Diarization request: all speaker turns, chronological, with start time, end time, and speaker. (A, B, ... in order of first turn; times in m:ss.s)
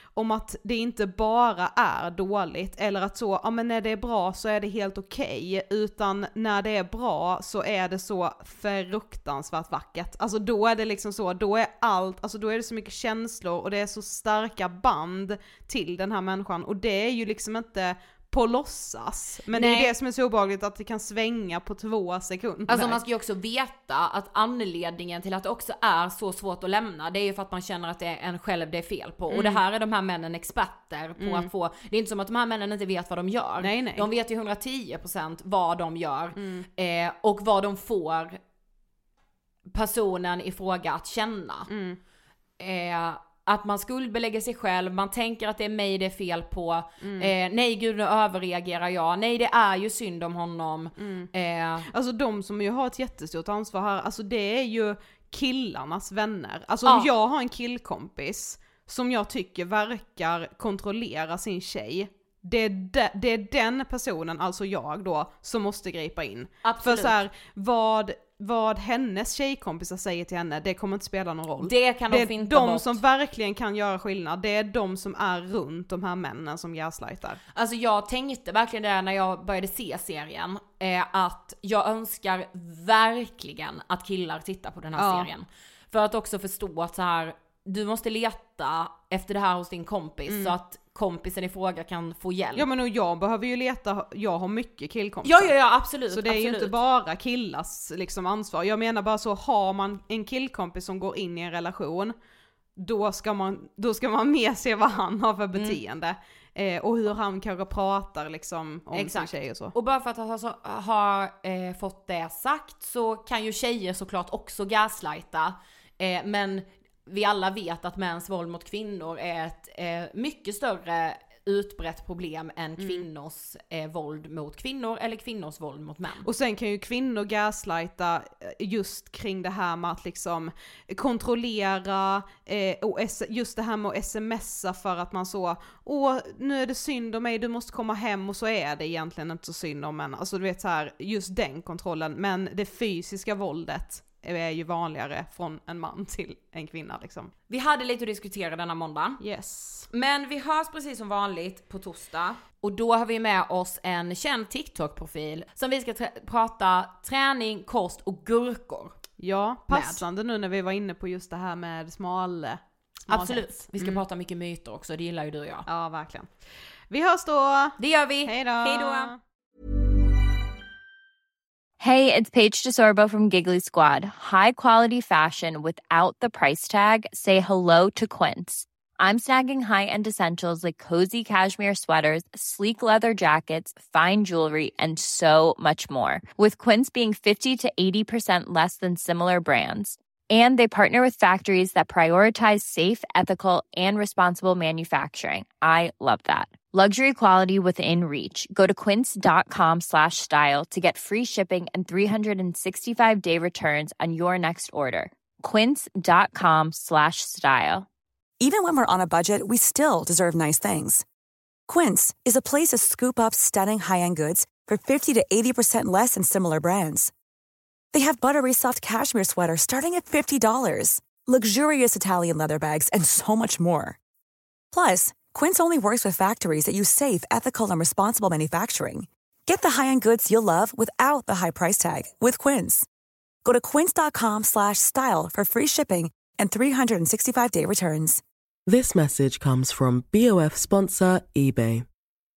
0:00.2-0:23.0 A
0:19.5-0:19.9 B
0:22.7-0:38.4 B
0:29.3-0:29.6 A
0:31.2-0:31.5 A
0:33.6-0:34.0 A
0:36.4-0:36.6 A
0:39.7-0:41.7 B
0:41.7-0:42.0 A
0:42.6-0:51.8 B
0:47.0-0:47.3 A
0:51.0-0:51.3 A
0:51.9-1:17.4 A
1:06.6-1:07.2 B
1:11.6-1:13.0 B
1:17.5-1:32.6 B
1:25.0-1:25.3 A
1:30.3-1:30.5 A
1:32.5-1:35.5 A
1:35.2-1:36.7 B
1:36.1-1:42.1 A
1:42.8-1:49.7 A
1:48.9-2:06.2 B
2:02.8-2:03.0 A
2:06.2-2:27.3 A
2:27.5-2:29.2 B
2:29.2-2:29.9 A
2:29.9-2:39.0 B
2:39.2-2:44.0 A
2:39.7-2:40.0 B
2:43.1-2:45.7 B
2:45.7-2:46.4 A
2:46.9-2:49.2 A
2:47.8-2:49.1 B
2:51.8-3:27.9 C
3:28.4-3:31.0 D
3:31.7-3:37.1 D
3:37.9-3:44.0 D
3:44.7-3:52.9 D
3:53.4-3:58.2 D
3:58.7-4:01.8 E